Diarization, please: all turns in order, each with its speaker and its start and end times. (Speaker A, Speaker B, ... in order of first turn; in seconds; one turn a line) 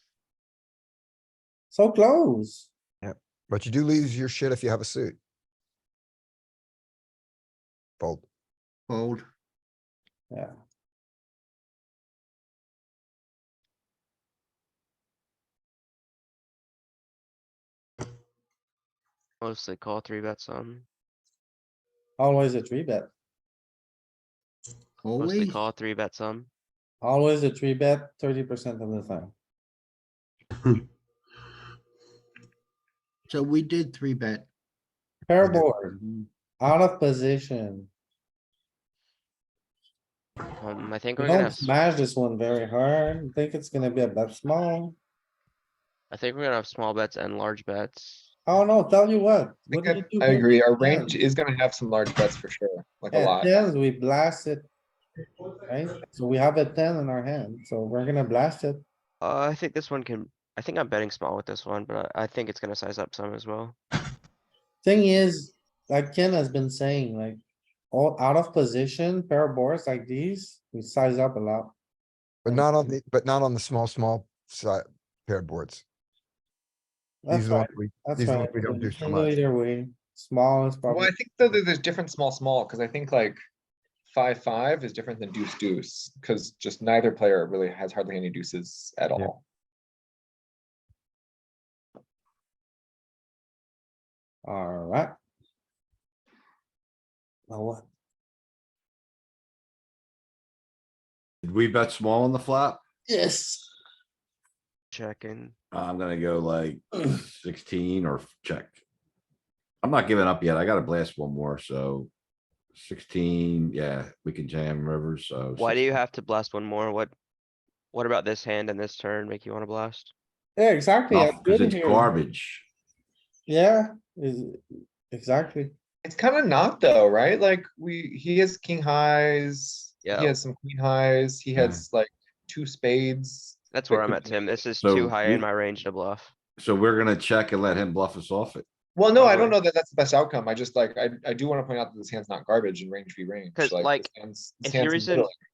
Speaker A: 1.7-2.7
Speaker B: 3.5-5.2
Speaker B: 8.0-8.2
Speaker C: 8.9-9.2
Speaker D: 19.4-20.9
Speaker A: 22.2-23.1
Speaker C: 25.0-25.5
Speaker D: 25.1-26.5
Speaker A: 27.0-29.3
Speaker C: 33.3-34.5
Speaker A: 35.3-36.0
Speaker A: 36.6-37.9
Speaker D: 40.5-41.7
Speaker A: 41.2-45.0
Speaker D: 46.1-48.3
Speaker A: 48.5-51.1
Speaker E: 49.7-53.5
Speaker A: 53.1-54.6
Speaker A: 55.6-58.8
Speaker D: 59.2-63.8
Speaker A: 64.8-67.4
Speaker A: 67.9-71.7
Speaker B: 72.4-75.8
Speaker A: 77.2-81.1
Speaker B: 77.3-79.3
Speaker E: 80.9-83.4
Speaker E: 84.1-89.4
Speaker A: 94.4-95.1
Speaker A: 97.5-97.9
Speaker F: 101.4-102.8
Speaker A: 103.1-103.7
Speaker D: 104.9-105.5
Speaker F: 105.7-108.8
Speaker F: 109.8-112.1
Speaker F: 112.7-115.8
Speaker D: 115.6-117.1
Speaker D: 117.9-120.1
Speaker A: 120.5-122.1
Speaker F: 121.1-122.6
Speaker A: 123.5-125.7
Speaker E: 126.0-134.6
Speaker D: 130.0-130.3
Speaker F: 131.6-131.8
Speaker D: 133.7-136.3
Speaker F: 134.8-135.4
Speaker F: 136.6-138.7
Speaker E: 138.9-145.3
Speaker D: 139.1-139.6
Speaker D: 143.5-144.1
Speaker D: 144.6-145.3